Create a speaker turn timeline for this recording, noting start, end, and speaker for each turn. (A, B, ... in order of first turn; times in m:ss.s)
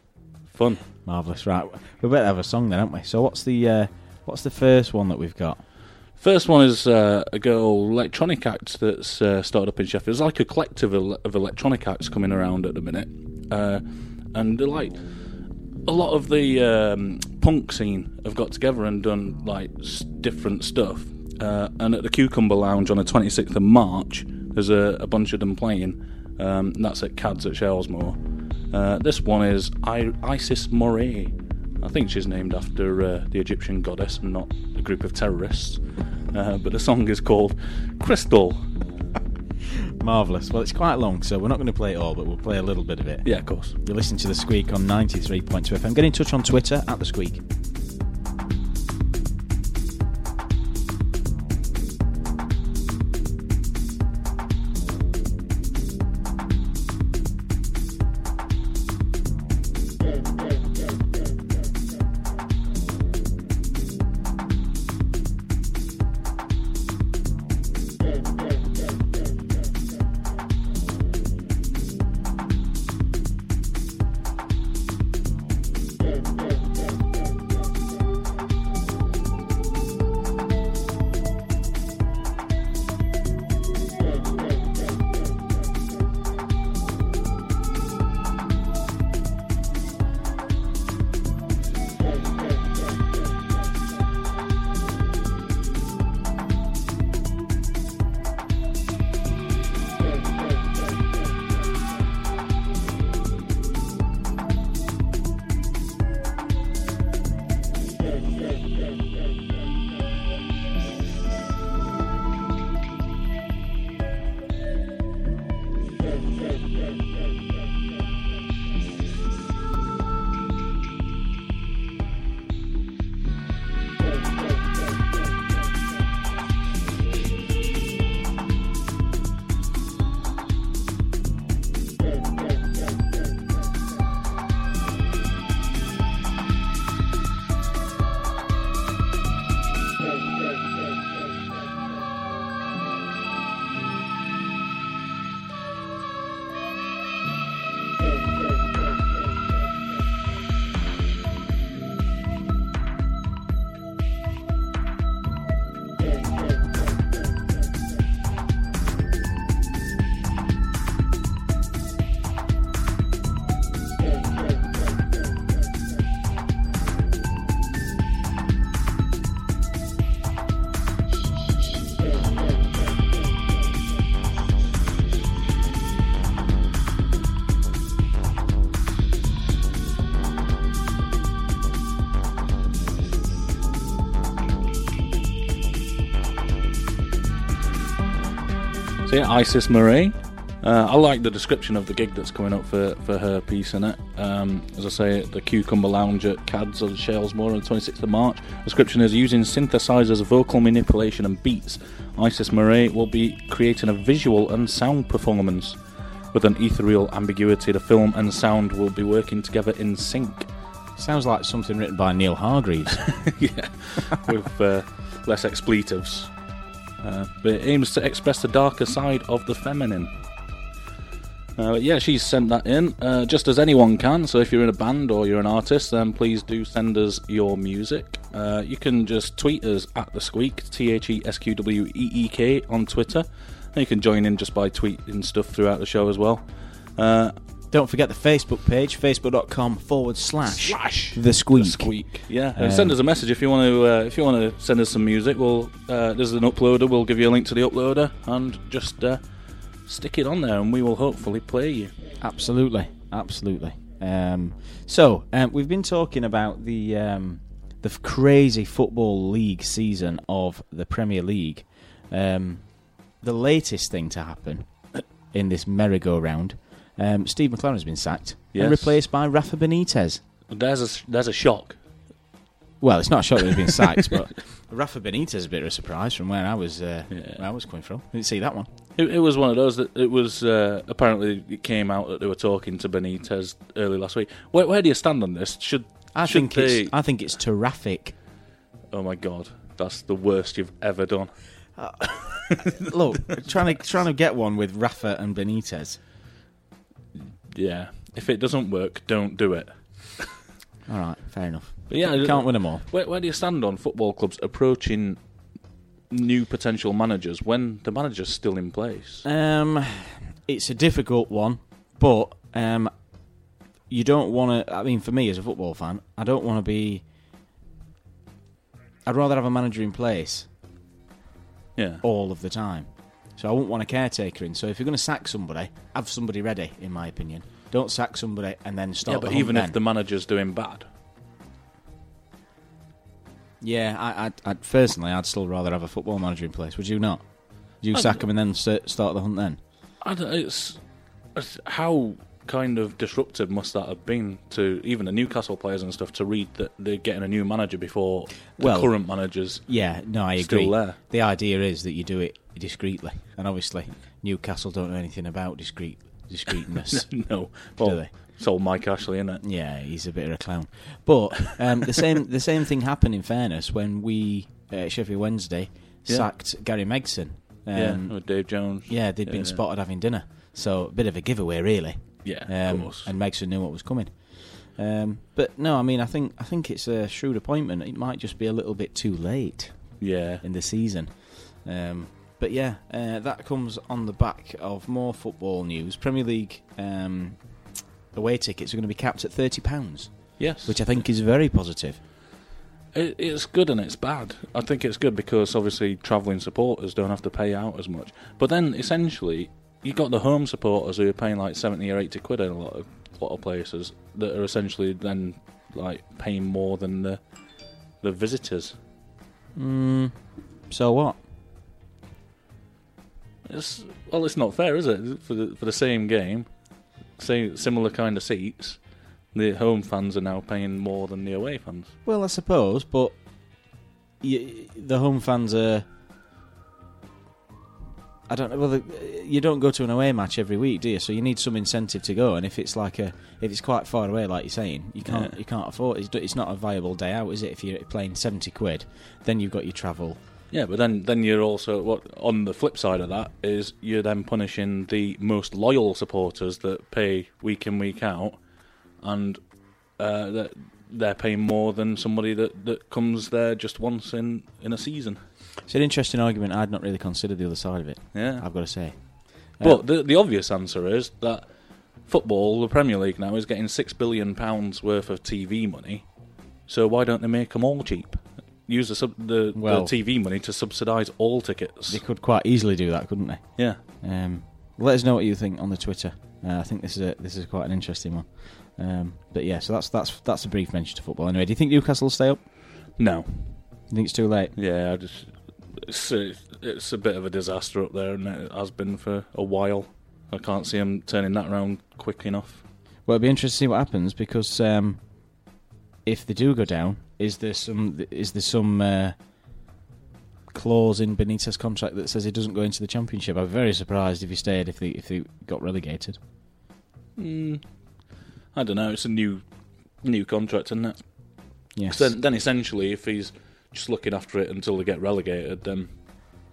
0:00.5-0:00.8 A
0:01.0-0:05.6 B
0:06.2-0:15.0 A
0:15.8-0:28.2 A
0:28.7-0:38.6 A
0:39.7-0:43.3 B
0:43.2-0:43.8 A
0:43.8-0:47.4 B
3:09.0-3:25.8 A
3:26.3-3:30.5 A
3:31.0-3:33.0 B
3:33.0-3:36.3 A
3:37.0-3:40.1 A
3:41.6-3:56.4 A
3:57.0-3:57.3 A
3:57.7-4:03.0 B
4:00.5-4:09.2 A
4:09.8-4:11.9 A
4:12.2-4:24.7 B
4:25.3-4:30.2 B
4:28.5-4:29.0 A
4:30.5-4:31.8 A
4:32.8-4:38.7 B
4:33.7-4:34.1 A
4:37.1-4:37.4 A
4:39.0-4:47.0 A
4:46.1-4:48.2 B
4:48.9-4:51.3 A
4:51.8-4:56.0 B
4:52.5-4:53.5 A
4:57.5-5:00.3 A
5:00.9-5:02.8 B
5:01.9-5:05.2 A
5:06.1-5:09.2 A
5:09.2-5:12.9 B
5:13.9-5:17.0 B
5:19.0-5:20.5 B
5:21.8-5:22.0 A
5:22.0-5:29.8 B
5:29.0-5:30.9 A
5:33.6-5:39.6 B
5:37.9-5:38.2 A
5:40.0-5:40.8 A
5:41.3-5:49.7 A
5:48.6-5:58.1 B
5:50.4-5:51.0 A
5:56.8-5:59.4 A
5:59.4-6:27.4 B
6:07.7-6:09.6 A
6:12.2-6:13.1 A
6:20.0-6:20.4 A
6:28.1-6:32.0 B
6:30.4-6:31.0 A
6:32.9-6:47.2 A
6:48.0-6:48.7 A
6:49.5-6:50.2 B
6:50.7-6:51.2 B
6:53.5-6:56.5 A
6:57.2-6:58.8 A
6:59.3-7:01.9 A
7:02.0-7:03.2 B
7:04.2-7:05.8 B
7:08.3-7:20.2 B
7:15.0-7:15.4 A
7:20.5-7:28.4 A
7:29.0-7:29.4 A
7:30.0-7:35.2 A
7:35.7-7:39.8 B
7:38.1-7:38.4 A
7:39.6-7:41.5 A
7:42.0-7:46.1 A
7:46.7-7:52.0 A
7:49.5-7:49.9 B
7:51.9-8:02.4 B
8:03.0-8:03.6 A
8:03.9-8:04.5 B
8:04.6-8:12.6 A
8:13.0-8:15.0 B
8:16.0-8:19.2 B
8:20.5-8:26.2 B
8:27.2-8:27.6 A
8:28.5-8:29.4 A
8:30.0-8:31.1 A
8:31.7-8:32.1 B
8:31.9-8:35.9 A